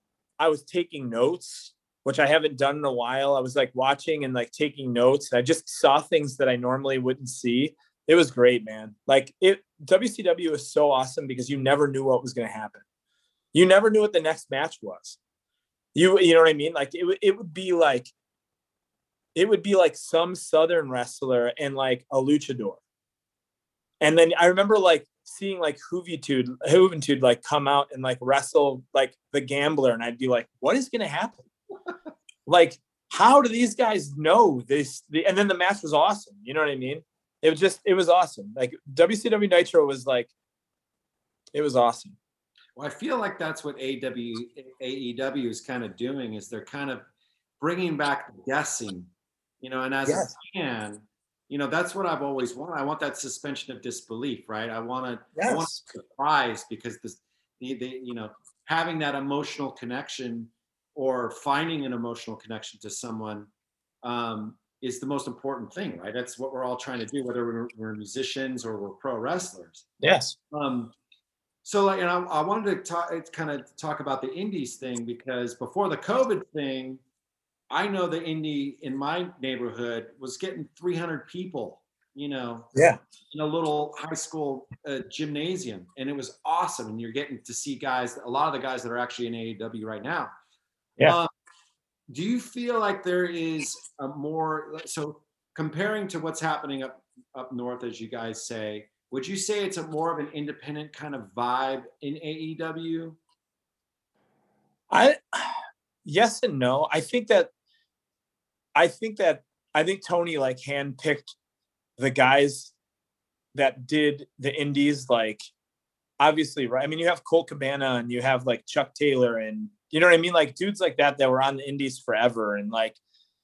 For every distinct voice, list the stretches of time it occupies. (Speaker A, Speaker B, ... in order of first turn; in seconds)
Speaker A: 0.4-12.8, 13.5-15.2, 15.9-18.1, 19.4-22.8, 24.0-31.4, 32.5-40.3, 41.5-42.2, 50.1-50.3, 55.4-55.8, 70.0-70.3, 104.9-107.5, 108.8-111.3, 112.0-112.7, 113.5-115.4, 116.2-123.0
Speaker B: 42.8-47.1, 47.6-63.5, 64.0-69.9, 70.5-70.9, 71.7-77.0, 77.7-82.7, 83.3-90.3, 91.0-91.3, 92.1-103.2